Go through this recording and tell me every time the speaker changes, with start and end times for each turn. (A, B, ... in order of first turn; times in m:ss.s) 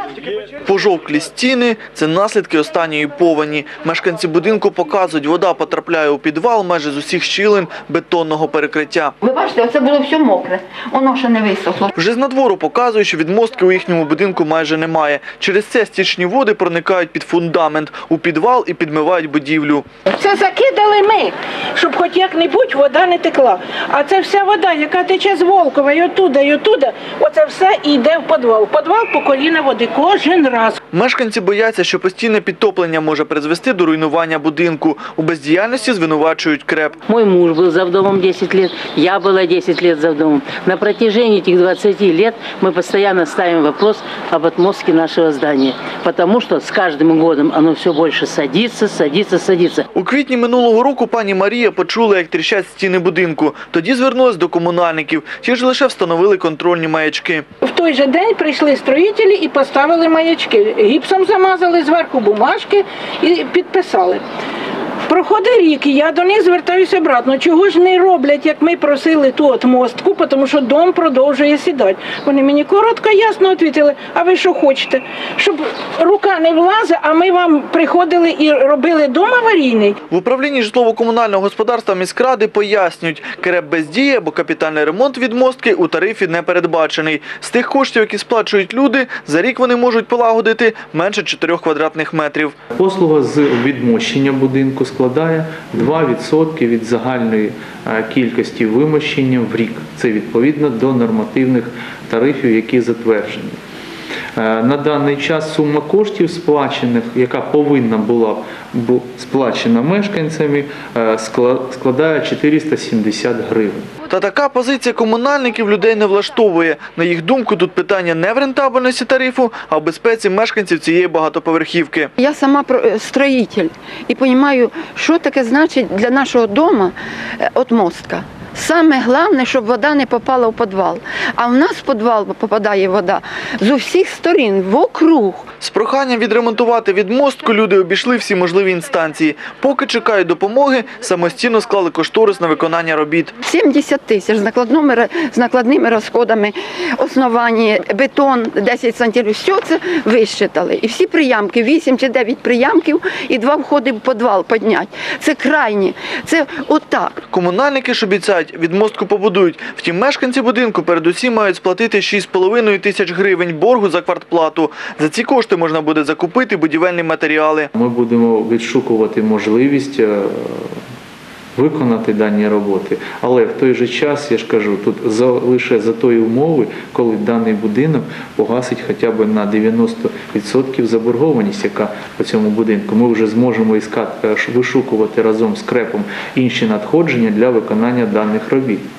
0:00.6-0:09.1 A
0:09.2-0:11.9 B
0:12.0-0:19.8 A
0:20.1-0:30.8 C
0:30.9-0:37.0 A
0:37.1-0:49.8 D
0:49.9-0:57.4 A
0:57.6-1:04.2 C
1:05.1-1:20.0 C
1:20.1-1:32.5 A
1:32.8-1:43.6 E
1:44.3-1:53.9 E
1:54.1-2:02.1 A
2:02.2-2:15.5 B
2:15.6-2:23.4 A
2:23.4-2:37.2 B
2:37.3-2:47.7 A
2:47.7-2:50.8 E
2:51.5-3:08.8 E